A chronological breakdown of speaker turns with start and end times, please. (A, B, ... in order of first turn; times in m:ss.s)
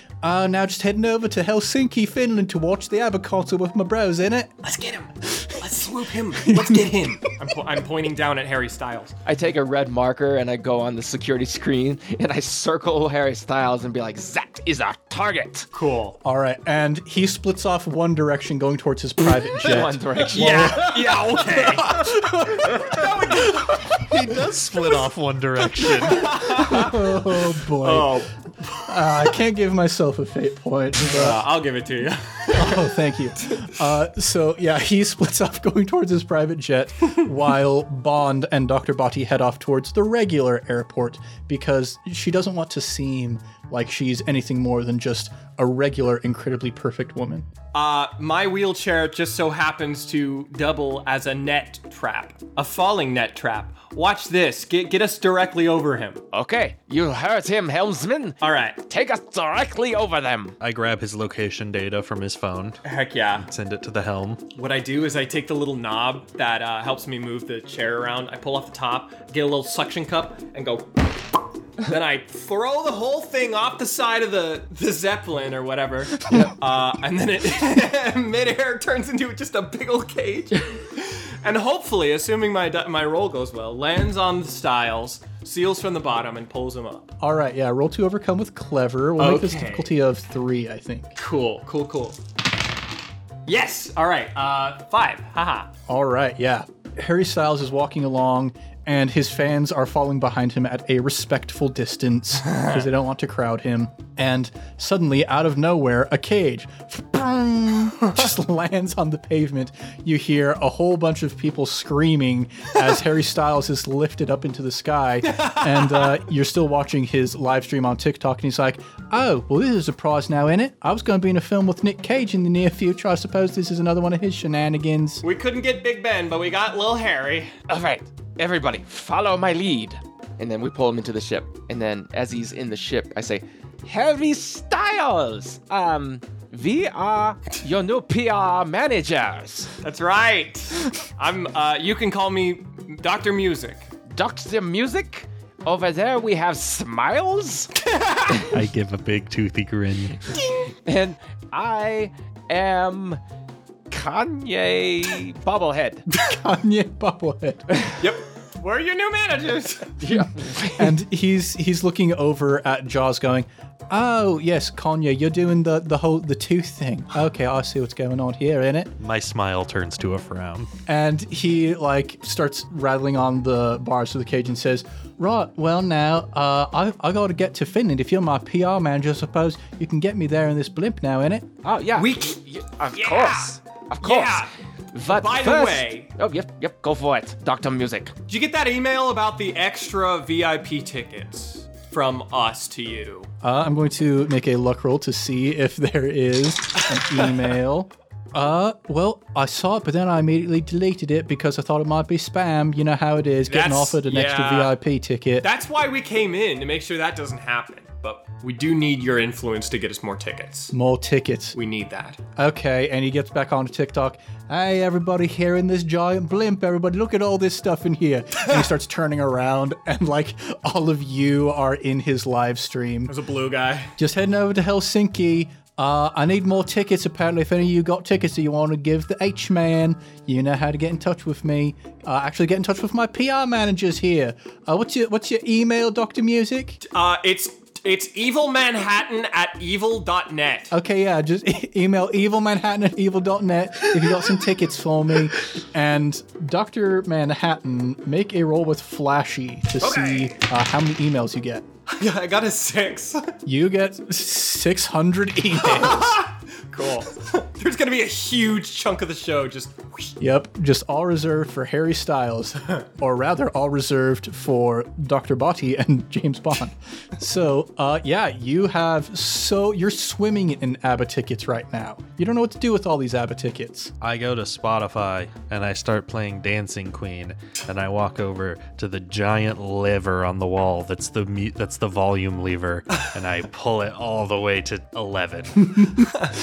0:00.2-0:04.6 A
0:04.6-0:09.1 B
0:06.4-0:06.9 A
0:09.2-0:15.6 C
0:15.7-0:16.2 B
0:16.2-0:23.7 A
0:19.6-0:20.9 C
0:20.3-0:22.0 B
0:22.7-0:23.7 B
0:23.9-0:26.6 D
0:25.8-0:29.3 B
0:26.4-0:31.4 A
0:31.0-0:33.6 B
0:32.5-0:47.4 A
0:47.7-0:56.2 B
0:56.3-1:00.6 C
0:58.4-0:58.8 B
1:00.6-1:02.8 D
1:02.8-1:03.4 B
1:03.4-1:04.4 D
1:04.5-1:11.1 B
1:11.8-1:27.1 B
1:16.2-1:16.5 C
1:27.2-1:31.1 A
1:29.2-1:29.9 B
1:31.2-1:32.2 B
1:33.5-1:35.7 B
1:35.9-2:05.2 A
1:55.3-1:56.2 B
2:05.2-2:07.5 B
2:07.7-2:19.7 C
2:19.8-2:23.9 B
2:24.1-2:27.7 C
2:27.8-2:28.5 B
2:28.5-2:30.2 D
2:30.8-2:33.2 C
2:33.9-2:36.0 C
2:36.1-2:37.6 A
2:38.0-2:40.0 B
2:40.0-2:41.0 C
2:40.7-2:48.9 A
2:49.0-2:50.7 D
2:50.9-3:01.5 A
3:01.6-3:08.1 C
3:01.9-3:02.4 B
3:02.9-3:04.5 B
3:05.0-3:06.1 B
3:08.3-3:13.3 B
3:13.4-3:25.5 A
3:23.5-3:24.7 B
3:25.4-3:30.7 B
3:30.7-3:31.6 A
3:31.5-3:32.2 B
3:32.4-3:43.1 A
3:43.1-3:43.9 B
3:44.0-3:56.8 A
3:56.8-4:00.7 B
4:00.7-4:11.6 A
4:09.8-4:10.4 B
4:11.9-4:13.3 B
4:13.4-4:16.3 A
4:15.7-4:20.1 B
4:20.2-4:33.9 A
4:34.0-4:45.9 D